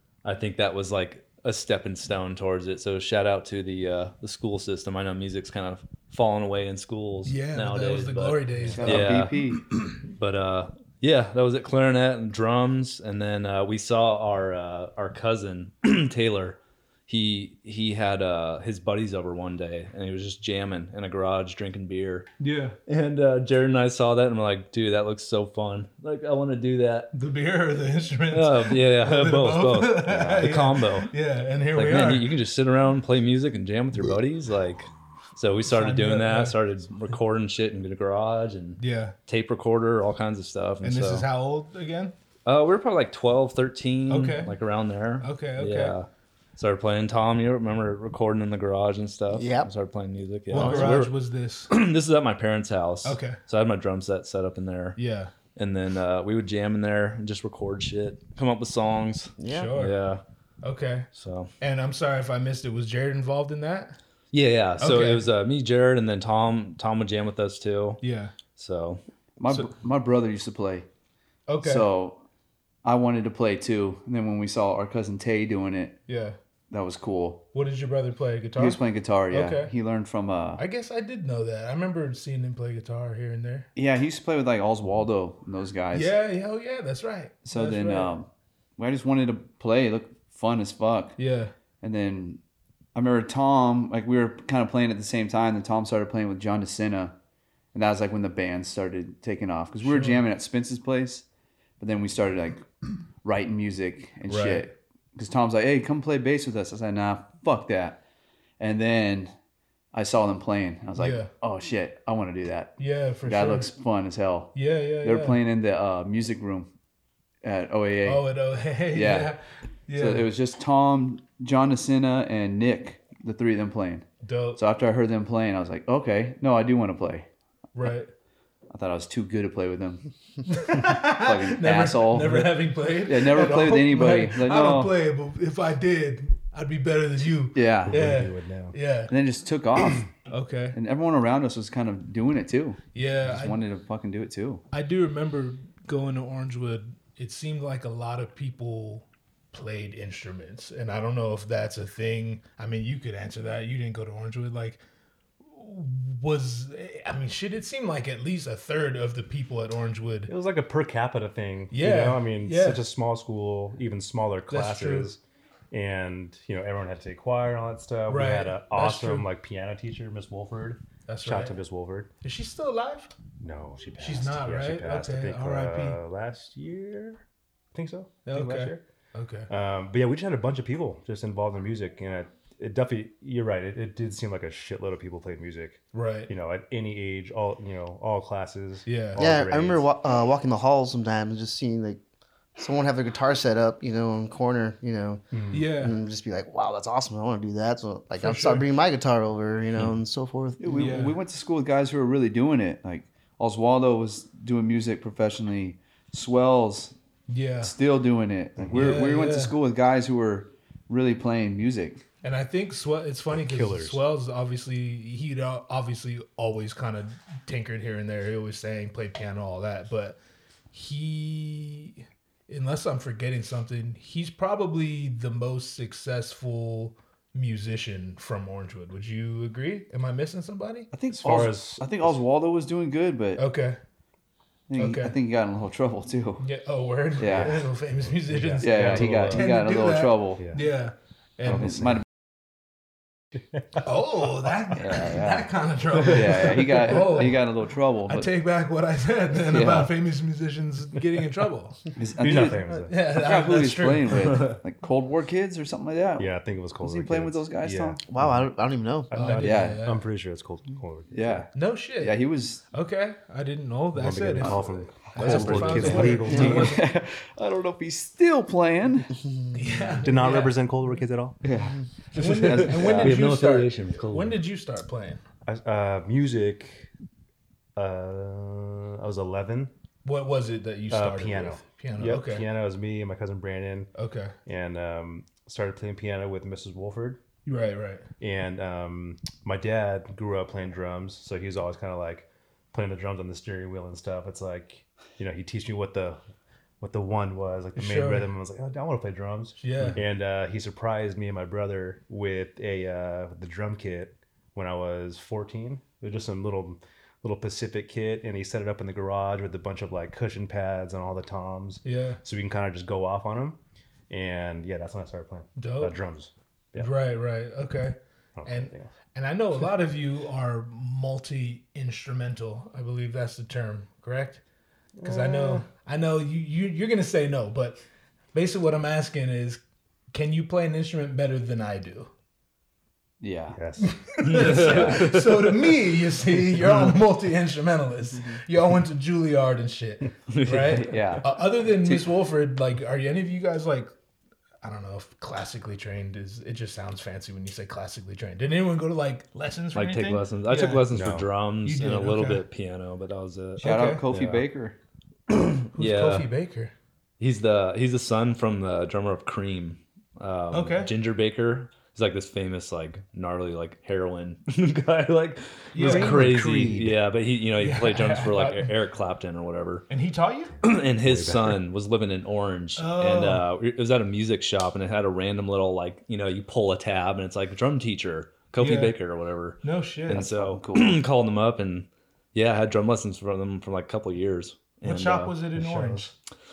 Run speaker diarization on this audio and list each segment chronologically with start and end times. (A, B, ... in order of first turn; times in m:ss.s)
0:00.2-0:09.4 A
0:07.2-0:09.2 B
0:08.7-0:09.7 C
0:10.1-0:22.3 A
0:22.4-0:22.8 B
0:22.9-0:27.1 A
0:27.1-0:32.3 B
0:28.3-0:31.1 A
0:31.7-0:41.3 A
0:35.6-0:36.6 B
0:38.8-0:39.2 B
0:40.8-0:42.2 B
0:42.5-0:51.1 A
0:44.1-0:44.6 B
0:45.2-0:46.0 B
0:49.3-0:49.7 D
0:50.5-0:51.7 B
0:51.7-0:55.0 A
0:53.0-0:53.4 B
0:55.0-0:55.3 B
0:55.6-1:00.2 A
0:59.4-0:59.7 D
0:59.5-1:00.0 B
1:00.6-1:01.1 B
1:01.1-1:01.5 A
1:01.6-1:04.0 B
1:04.3-1:08.0 A
1:04.8-1:05.3 B
1:08.0-1:08.3 B
1:08.6-1:09.0 A
1:09.4-1:10.9 C
1:11.5-1:11.9 B
1:11.6-1:12.2 C
1:12.8-1:16.0 C
1:16.1-1:16.4 B
1:16.7-1:17.4 C
1:17.5-1:19.7 B
1:18.6-1:20.6 C
1:20.6-1:23.7 B
1:23.8-1:26.1 C
1:25.9-1:28.1 B
1:27.4-1:31.2 C
1:31.2-1:31.5 B
1:31.8-1:32.4 C
1:32.9-1:37.2 C
1:37.7-1:41.2 C
1:39.8-1:40.2 B
1:41.8-1:42.7 C
1:43.2-1:48.0 C
1:44.3-1:44.7 B
1:48.6-1:49.3 C
1:49.9-1:56.7 C
1:51.0-1:51.3 B
1:52.8-1:53.7 B
1:54.5-1:55.4 B
1:57.4-1:58.3 C
1:58.0-2:00.3 B
1:58.9-1:59.4 C
2:00.0-2:07.3 C
2:04.2-2:04.6 B
2:07.8-2:08.1 B
2:08.7-2:10.0 C
2:10.5-2:19.1 B
2:11.0-2:15.0 C
2:17.5-2:18.0 C
2:17.9-2:18.8 E
2:19.1-2:20.1 C
2:20.3-2:20.8 B
2:20.7-2:24.6 C
2:22.9-2:23.6 B
2:24.7-2:34.8 B
2:35.4-2:40.3 B
2:40.3-2:52.1 E
2:41.7-2:42.9 B
2:44.5-2:45.1 B
2:48.1-2:49.3 B
2:51.1-2:51.6 B
2:52.2-2:53.1 B
2:53.4-2:58.8 E
2:54.0-2:56.0 B
2:58.3-2:59.5 B
2:59.5-3:09.9 E
3:05.9-3:06.3 B
3:08.9-3:09.2 B
3:09.2-3:12.0 D
3:12.6-3:21.0 D
3:15.3-3:15.7 E
3:15.5-3:16.0 B
3:18.2-3:18.7 B
3:20.6-3:27.0 C
3:20.7-3:21.2 B
3:27.3-3:27.8 B
3:27.6-3:32.0 C
3:28.7-3:29.6 B
3:32.2-3:40.2 B
3:33.3-3:34.1 E
3:40.7-3:50.9 B
3:50.9-3:53.4 C
3:51.1-3:52.2 E
3:53.4-3:53.8 B
3:54.7-3:56.5 C
3:54.8-3:55.2 B
3:56.4-4:01.7 B
3:57.2-3:57.7 C
3:57.3-3:57.5 E
3:58.0-3:59.5 E
3:58.6-4:00.6 C
4:01.5-4:02.0 C
4:01.5-4:02.0 E
4:03.8-4:07.4 B
4:04.8-4:08.3 C
4:08.1-4:11.8 B
4:09.3-4:09.9 C
4:12.0-4:18.0 C
4:12.2-4:13.0 E
4:12.3-4:14.6 B
4:16.2-4:18.5 E
4:18.0-4:19.3 D
4:19.1-4:21.5 E
4:19.1-4:20.0 B
4:19.4-4:19.8 C
4:21.1-4:22.6 C
4:21.6-4:22.2 B
4:22.7-4:26.9 B
4:23.9-4:26.8 E
4:25.2-4:26.4 A
4:25.3-4:29.1 C
4:29.5-4:30.6 B
4:30.0-4:31.4 E
4:31.4-4:31.8 C
4:32.1-4:35.2 B
4:32.3-4:33.2 C
4:32.5-4:34.4 A
4:32.7-4:33.2 E
4:35.4-4:36.9 E
4:37.8-4:39.7 E
4:40.0-4:42.4 B
4:40.9-4:43.9 E
4:44.0-4:44.4 B
4:44.5-4:47.2 E
4:47.5-4:48.0 B
4:48.2-4:56.2 E
4:56.8-5:13.6 E
4:57.8-4:58.3 B
4:59.6-5:00.0 B
5:11.8-5:12.2 B
5:14.1-5:16.9 E
5:15.6-5:16.0 B
5:16.8-5:24.4 B
5:18.4-5:18.9 E
5:25.0-5:25.7 E
5:25.0-5:27.8 B
5:28.3-5:29.6 B
5:30.1-5:32.1 B
5:33.2-5:33.6 C
5:33.5-5:34.6 E
5:33.8-5:43.9 B
5:34.2-5:35.5 A
5:40.3-5:41.2 A
5:40.7-5:42.1 C
5:44.6-5:50.9 B
5:49.7-5:54.4 A
5:50.9-5:51.3 E
5:51.6-5:52.4 B
5:53.6-5:54.0 B
5:53.6-5:54.8 C
5:54.1-5:54.4 E
5:55.3-5:56.3 A
5:55.7-5:56.7 B
5:57.2-6:09.9 A
6:00.5-6:00.9 B
6:05.7-6:06.2 B
6:05.8-6:07.0 E
6:07.6-6:08.7 B
6:09.9-6:10.6 B
6:10.6-6:25.4 A
6:11.0-6:11.6 E
6:12.8-6:13.4 B
6:18.6-6:19.0 B
6:19.6-6:20.2 B
6:20.1-6:21.0 C
6:24.8-6:26.1 B
6:25.6-6:26.1 E